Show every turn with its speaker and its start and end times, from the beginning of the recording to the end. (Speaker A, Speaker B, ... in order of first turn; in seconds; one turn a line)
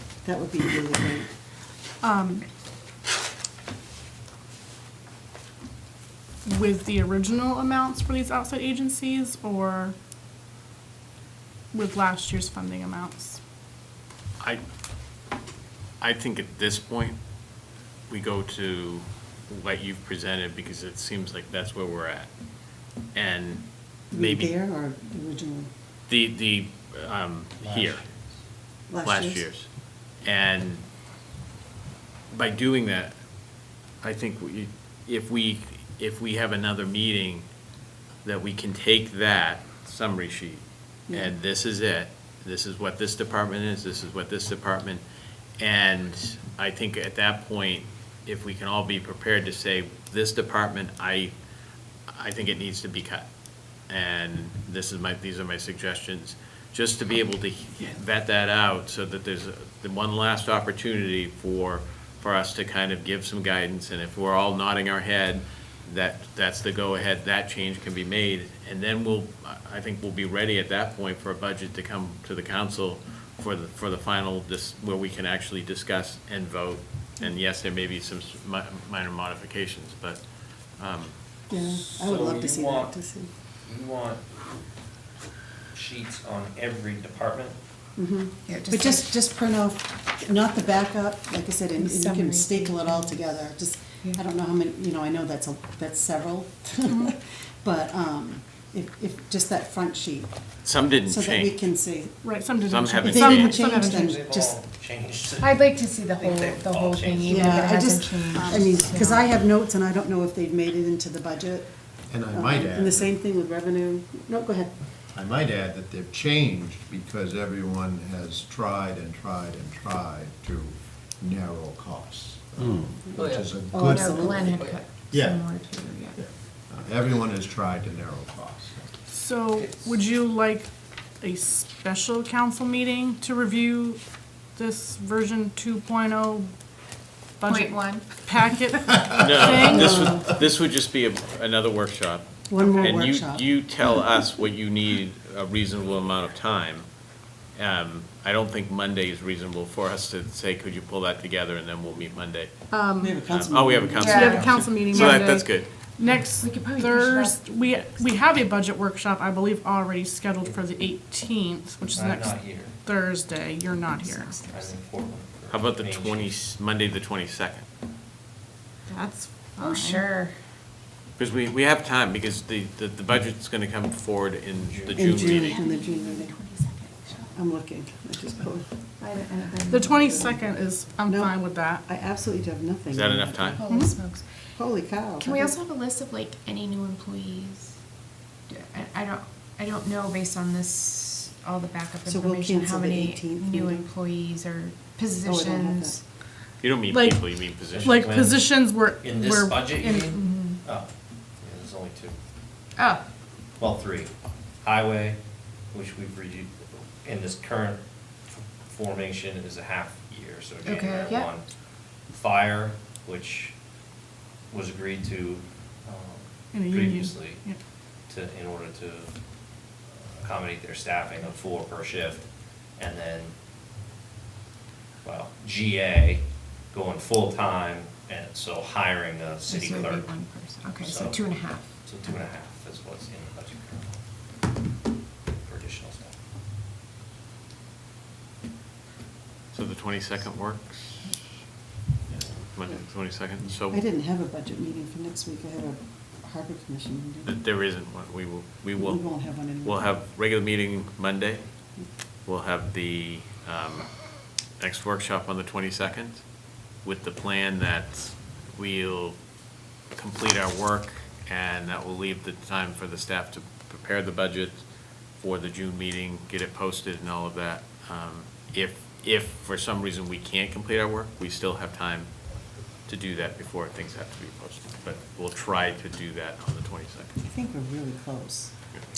Speaker A: 0.2-1.3
Speaker B: 2.0-2.5
Speaker B: 6.4-9.9
Speaker B: 11.7-13.4
Speaker C: 16.0-17.2
Speaker C: 18.1-22.3
Speaker C: 23.1-24.5
Speaker A: 24.1-25.7
Speaker C: 26.1-28.0
Speaker D: 27.6-28.2
Speaker A: 28.9-29.4
Speaker C: 29.0-29.7
Speaker C: 30.2-30.8
Speaker C: 32.3-33.1
Speaker C: 34.0-37.4
Speaker C: 38.2-45.0
Speaker C: 45.6-51.3
Speaker C: 52.1-53.3
Speaker C: 53.9-80.2
Speaker C: 80.8-81.1
Speaker A: 81.5-83.3
Speaker D: 81.7-82.9
Speaker D: 83.7-84.3
Speaker D: 85.7-87.6
Speaker A: 88.0-100.3
Speaker E: 88.5-89.2
Speaker E: 91.8-93.2
Speaker B: 96.9-97.1
Speaker C: 100.6-101.7
Speaker A: 101.0-102.2
Speaker B: 102.2-104.2
Speaker C: 102.6-103.6
Speaker A: 103.0-104.6
Speaker D: 103.6-107.6
Speaker E: 105.4-109.3
Speaker A: 107.2-111.7
Speaker B: 108.3-109.0
Speaker F: 112.1-113.1
Speaker A: 112.3-114.7
Speaker F: 115.1-125.8
Speaker A: 123.7-124.5
Speaker E: 123.7-126.2
Speaker F: 126.7-128.9
Speaker B: 129.1-130.7
Speaker D: 129.6-129.9
Speaker B: 131.2-134.0
Speaker B: 134.6-136.5
Speaker B: 137.4-140.2
Speaker E: 137.4-138.1
Speaker F: 139.0-139.5
Speaker C: 139.1-146.8
Speaker A: 139.7-140.3
Speaker A: 142.5-143.4
Speaker B: 142.6-143.0
Speaker C: 147.6-152.5
Speaker B: 152.7-153.2
Speaker A: 153.0-154.6
Speaker C: 153.3-155.7
Speaker B: 154.0-164.4
Speaker E: 154.0-154.4
Speaker E: 156.4-157.4
Speaker D: 161.9-162.8
Speaker E: 164.0-164.8
Speaker D: 164.4-166.4
Speaker C: 165.5-167.7
Speaker B: 168.9-170.1
Speaker E: 169.6-170.3
Speaker C: 171.2-175.6
Speaker D: 174.7-175.3
Speaker A: 174.9-176.3
Speaker E: 175.3-177.3
Speaker A: 177.3-178.7
Speaker E: 179.0-180.3
Speaker B: 179.7-181.8
Speaker A: 181.1-183.6
Speaker C: 182.9-183.7
Speaker E: 183.5-184.2
Speaker B: 183.7-183.9
Speaker A: 184.6-185.5
Speaker E: 185.2-187.7
Speaker E: 188.5-196.0
Speaker A: 192.1-193.9
Speaker A: 195.2-196.0
Speaker C: 196.6-198.0
Speaker B: 196.9-200.2
Speaker D: 197.7-198.4
Speaker D: 199.0-200.9
Speaker E: 200.1-200.6
Speaker D: 201.4-202.2
Speaker E: 202.8-203.0
Speaker D: 203.6-204.1
Speaker D: 204.6-205.2
Speaker D: 205.7-207.8
Speaker D: 208.7-211.4
Speaker E: 210.6-211.3
Speaker D: 212.1-213.6
Speaker D: 214.5-217.4
Speaker B: 216.5-217.6
Speaker D: 218.1-219.1
Speaker D: 219.8-222.2
Speaker D: 222.8-223.3
Speaker D: 225.0-234.0
Speaker E: 229.5-231.7
Speaker D: 235.4-236.2
Speaker C: 239.5-241.1
Speaker C: 242.5-243.8
Speaker A: 243.7-247.3
Speaker C: 247.2-251.4
Speaker A: 248.8-249.8
Speaker C: 252.2-253.9
Speaker C: 254.6-256.2
Speaker C: 256.8-259.2
Speaker C: 259.9-264.6
Speaker C: 265.2-272.1
Speaker C: 272.9-277.1
Speaker A: 277.3-278.5